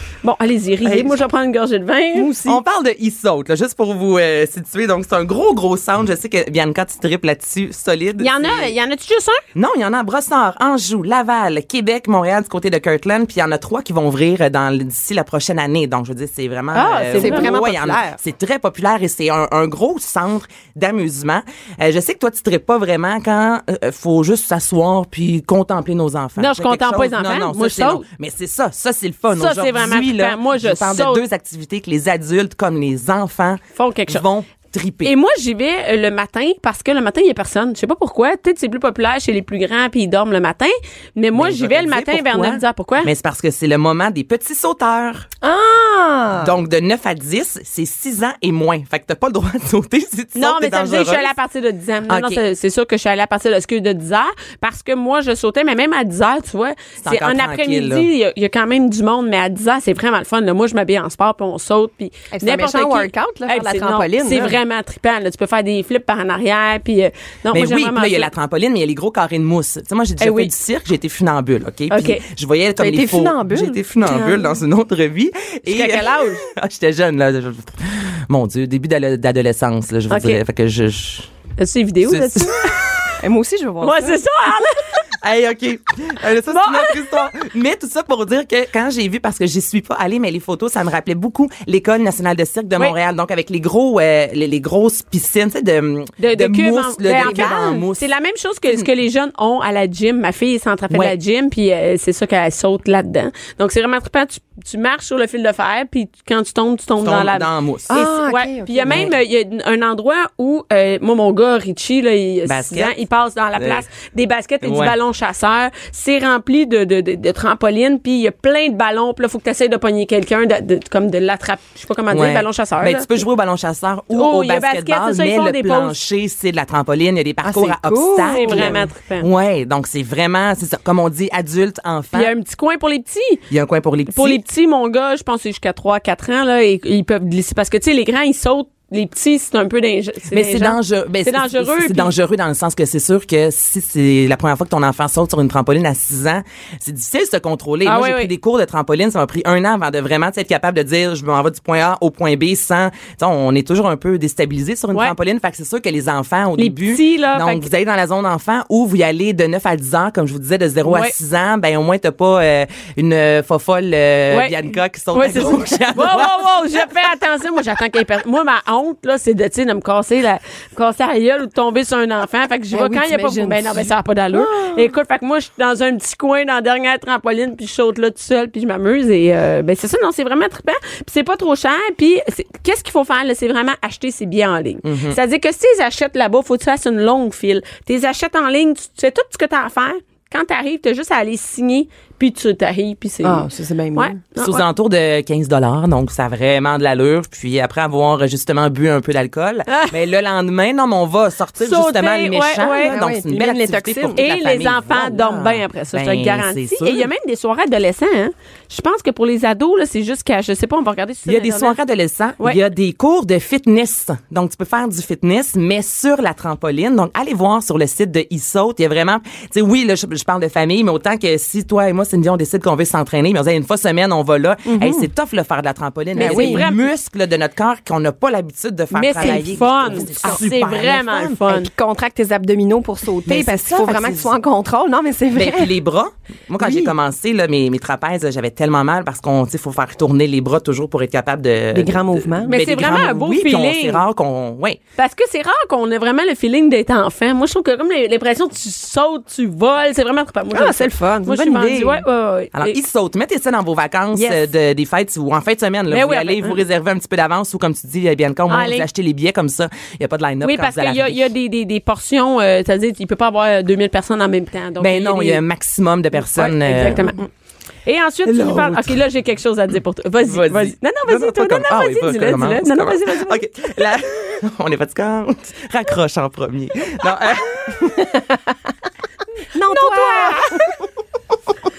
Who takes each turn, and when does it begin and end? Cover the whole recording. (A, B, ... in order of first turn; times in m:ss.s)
0:00.2-0:02.3 A
0:00.8-0:01.2 B
0:02.1-0:02.6 C
0:02.4-0:08.7 B
0:08.2-0:09.4 A
0:09.5-0:35.1 B
0:16.7-0:17.5 A
0:17.1-0:18.2 C
0:26.4-0:28.0 A
0:29.3-0:31.2 A
0:33.7-0:34.2 A
0:35.0-0:43.1 A
0:41.4-0:45.3 B
0:45.4-0:46.5 C
0:46.4-0:51.3 B
0:50.4-1:08.3 A
0:52.1-0:52.4 B
0:57.0-0:58.1 B
1:02.3-1:04.6 C
1:07.5-1:21.3 B
1:10.2-1:10.5 A
1:11.9-1:12.2 A
1:12.8-1:13.8 C
1:14.0-1:14.5 A
1:15.7-1:16.4 A
1:20.1-1:20.4 A
1:21.6-1:23.1 A
1:22.1-1:22.7 B
1:23.2-1:24.2 C
1:23.8-1:25.0 A
1:25.2-1:38.1 B
1:26.5-1:27.3 A
1:36.2-2:03.1 A
1:37.2-1:37.6 C
1:47.0-1:47.9 B
1:47.9-1:49.1 C
1:52.4-1:53.0 B
1:53.6-1:53.8 B
1:54.6-1:54.9 B
2:02.1-2:12.3 B
2:04.1-2:06.0 A
2:07.4-2:08.8 C
2:08.3-2:09.3 A
2:12.1-2:13.4 A
2:13.5-2:14.4 B
2:14.1-2:22.1 A
2:20.3-2:46.3 B
2:27.8-2:28.3 A
2:36.6-2:37.7 A
2:40.8-2:41.1 A
2:44.3-2:44.6 A
2:45.1-3:14.6 A
2:52.7-2:54.8 C
3:04.8-3:05.2 B
3:13.2-3:14.2 C
3:14.4-3:27.1 B
3:21.6-3:23.0 A
3:22.8-3:24.2 C
3:24.2-3:31.8 A
3:31.2-3:51.4 B
3:44.7-3:45.1 C
3:46.2-3:46.7 C
3:46.2-3:46.9 A
3:48.9-3:51.7 A
3:49.2-3:50.4 C
3:51.5-3:55.7 C
3:53.2-3:54.3 B
3:55.3-4:04.8 B
3:56.6-3:56.9 C
4:01.7-4:02.6 C
4:02.5-4:04.0 A
4:05.0-4:12.8 A
4:10.5-4:11.7 C
4:11.5-4:12.0 B
4:12.5-4:21.2 B
4:14.1-4:14.4 C
4:15.9-4:16.6 A
4:18.5-4:18.8 A
4:20.4-4:25.4 A
4:24.8-4:27.1 B
4:26.2-4:27.3 A
4:27.8-4:33.4 A
4:28.2-4:29.0 B
4:30.2-4:37.9 B
4:37.8-4:38.5 C
4:39.5-4:40.6 C
4:39.6-4:40.6 A